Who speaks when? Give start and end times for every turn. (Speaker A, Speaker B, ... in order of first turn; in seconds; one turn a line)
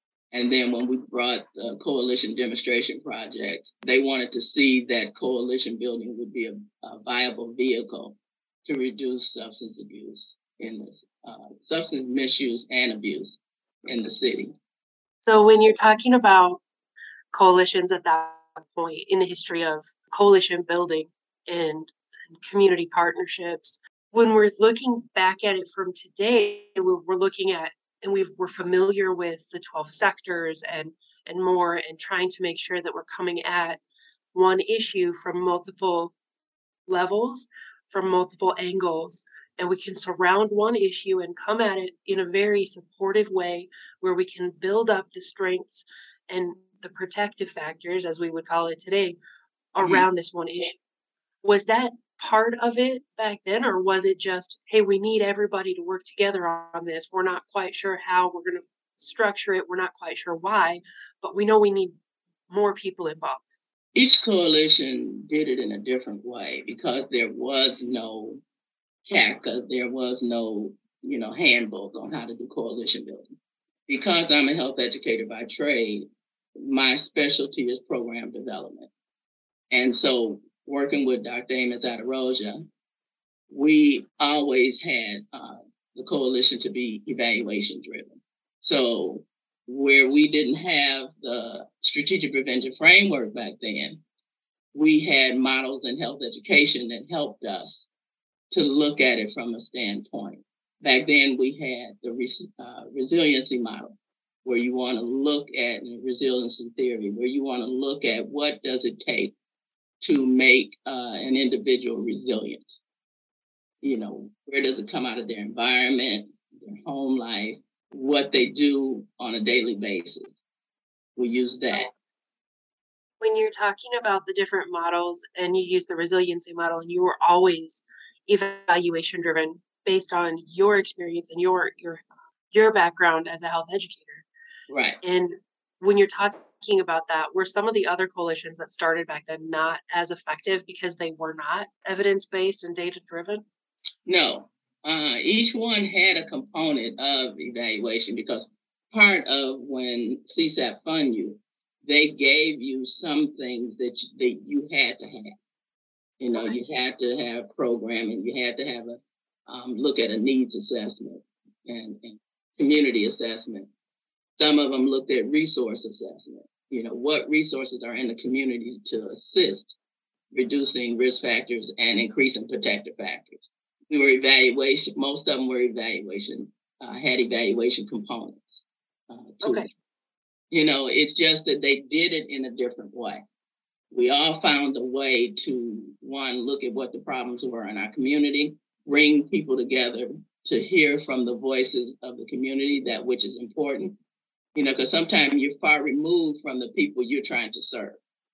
Speaker A: 0.3-14.6
Speaker B: 15.2-16.6
Speaker B: 17.3-33.8
Speaker B: 34.3-36.1
Speaker B: 36.9-49.2
Speaker B: 49.7-50.8
Speaker A: 49.8-50.1
Speaker B: 51.4-62.0
Speaker B: 62.5-63.5
Speaker A: 64.0-68.4
Speaker A: 69.1-73.3
Speaker A: 73.9-78.9
Speaker A: 79.7-82.6
Speaker A: 83.5-94.0
Speaker A: 94.7-97.9
Speaker A: 98.5-109.3
Speaker A: 110.0-112.7
Speaker A: 113.8-120.3
Speaker A: 121.2-121.9
Speaker B: 123.2-134.2
Speaker A: 134.7-135.0
Speaker B: 135.0-143.4
Speaker A: 144.1-155.3
Speaker A: 156.2-163.7
Speaker A: 164.4-169.8
Speaker A: 170.3-179.7
Speaker B: 179.4-179.7
Speaker A: 180.5-183.2
Speaker A: 183.9-194.0
Speaker A: 194.6-198.0